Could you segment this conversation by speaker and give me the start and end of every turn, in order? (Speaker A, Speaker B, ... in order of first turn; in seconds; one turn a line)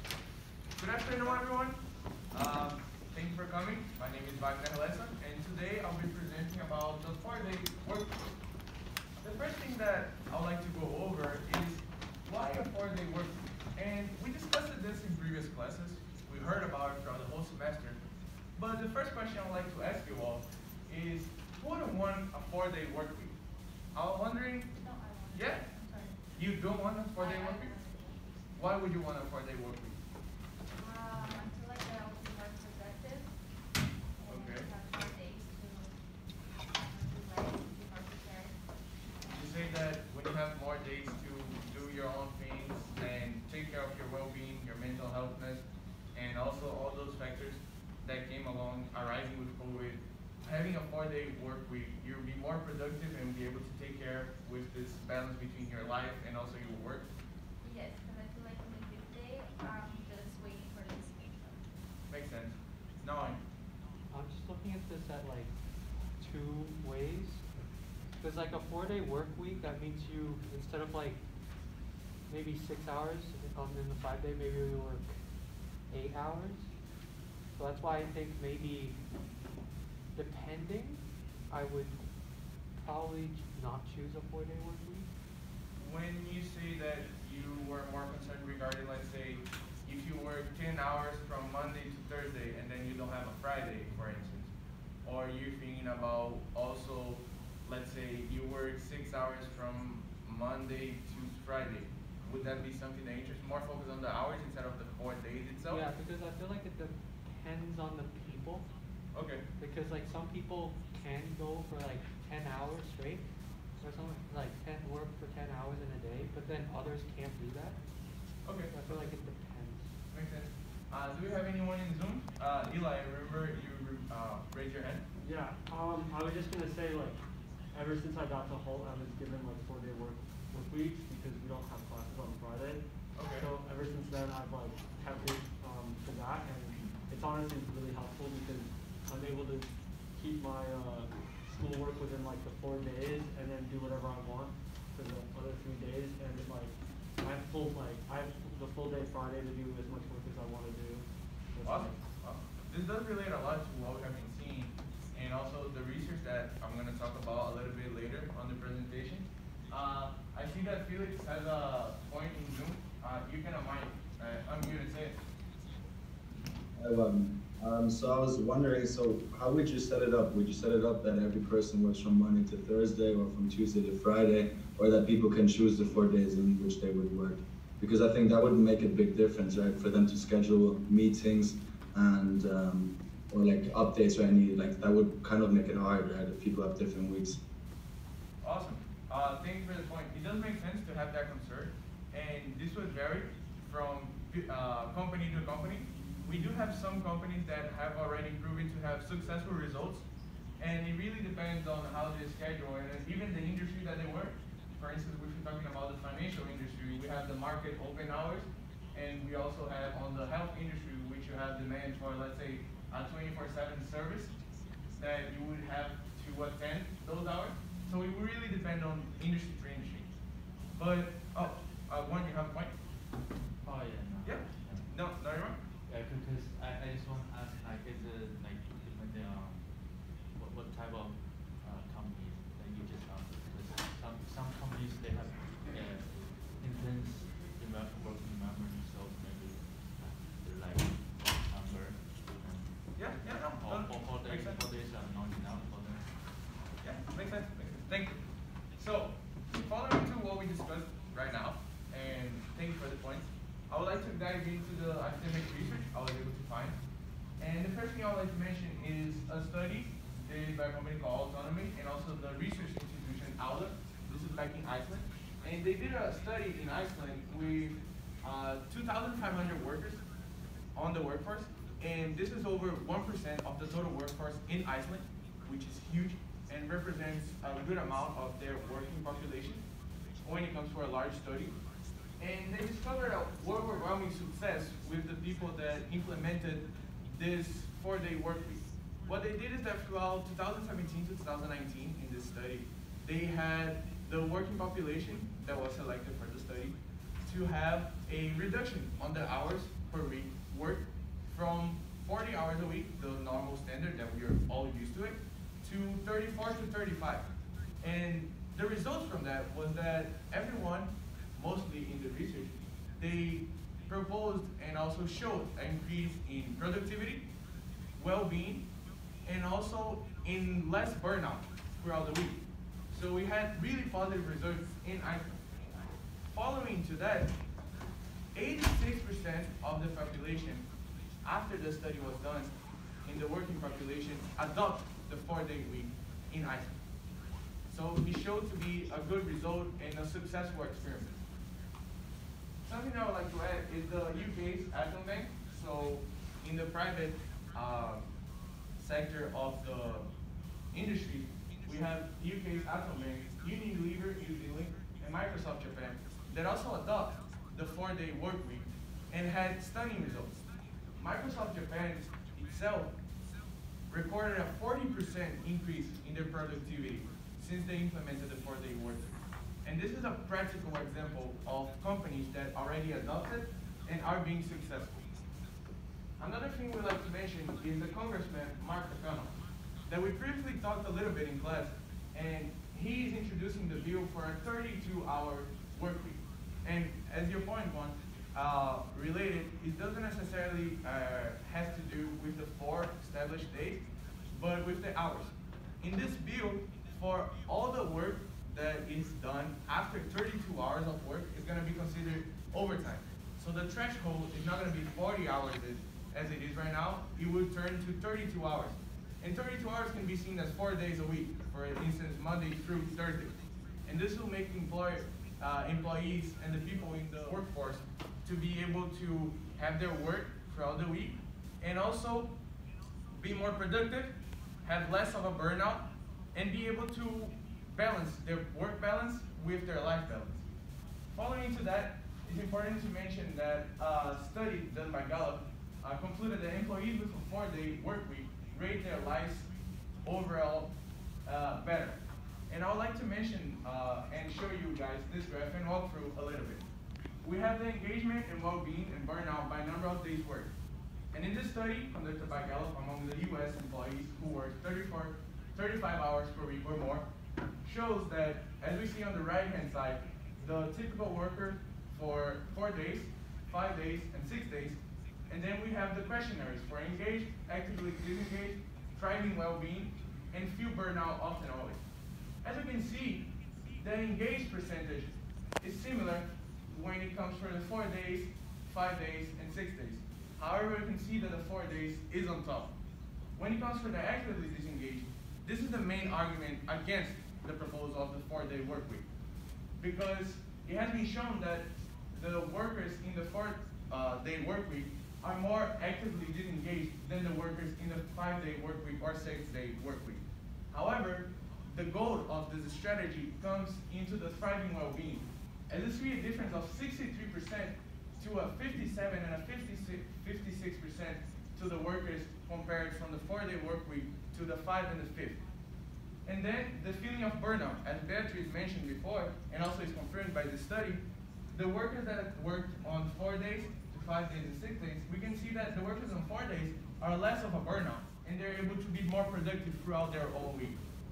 Speaker A: 0.8-1.8
Speaker A: 2.3-8.2
Speaker A: 9.2-18.0
Speaker A: 18.6-23.4
Speaker A: 23.9-24.7
Speaker B: 24.8-26.2
Speaker A: 25.3-25.6
Speaker A: 26.4-27.7
Speaker B: 27.2-28.2
Speaker A: 28.6-30.0
Speaker B: 30.8-33.3
Speaker B: 34.2-35.9
Speaker A: 34.3-34.7
Speaker B: 36.7-38.6
Speaker A: 39.3-57.1
Speaker B: 57.6-61.6
Speaker A: 62.1-63.4
Speaker C: 64.1-65.5
Speaker C: 66.2-67.6
Speaker C: 68.2-71.2
Speaker C: 72.3-75.1
Speaker C: 75.9-76.7
Speaker C: 77.6-79.0
Speaker C: 80.2-82.0
Speaker C: 82.8-85.1
Speaker A: 85.8-94.5
Speaker A: 95.0-105.8
Speaker C: 105.7-108.7
Speaker A: 109.1-109.4
Speaker C: 109.6-113.3
Speaker C: 113.8-117.8
Speaker A: 118.5-119.1
Speaker C: 118.7-119.9
Speaker A: 120.1-125.0
Speaker D: 125.2-127.2
Speaker D: 127.7-152.0
Speaker A: 133.2-133.5
Speaker A: 151.6-165.2
Speaker E: 166.8-187.4
Speaker A: 188.4-200.1
Speaker A: 200.6-214.3
Speaker A: 215.0-220.1
Speaker A: 220.8-222.8
Speaker F: 223.6-224.9
Speaker A: 224.2-225.6
Speaker F: 225.9-246.1
Speaker A: 243.0-244.6
Speaker A: 246.8-248.2
Speaker A: 248.8-256.8
Speaker A: 257.4-270.0
Speaker A: 270.8-279.6
Speaker A: 280.2-281.6
Speaker A: 282.2-307.3
Speaker A: 307.8-317.3
Speaker A: 318.0-318.7
Speaker A: 319.2-325.3
Speaker A: 326.3-327.4
Speaker A: 328.3-330.7
Speaker A: 331.2-332.5
Speaker A: 333.1-336.8
Speaker A: 337.7-341.2
Speaker A: 342.6-348.1
Speaker A: 348.8-350.1
Speaker A: 350.7-360.4
Speaker A: 361.0-362.9
Speaker A: 363.9-375.1
Speaker A: 376.2-422.3
Speaker A: 423.1-430.4
Speaker A: 431.1-439.5
Speaker A: 440.1-440.7
Speaker A: 441.3-446.6
Speaker A: 447.2-450.5
Speaker A: 451.1-457.1
Speaker A: 457.6-471.8
Speaker A: 472.4-482.7
Speaker A: 483.4-489.1
Speaker A: 489.8-515.4
Speaker A: 516.3-530.8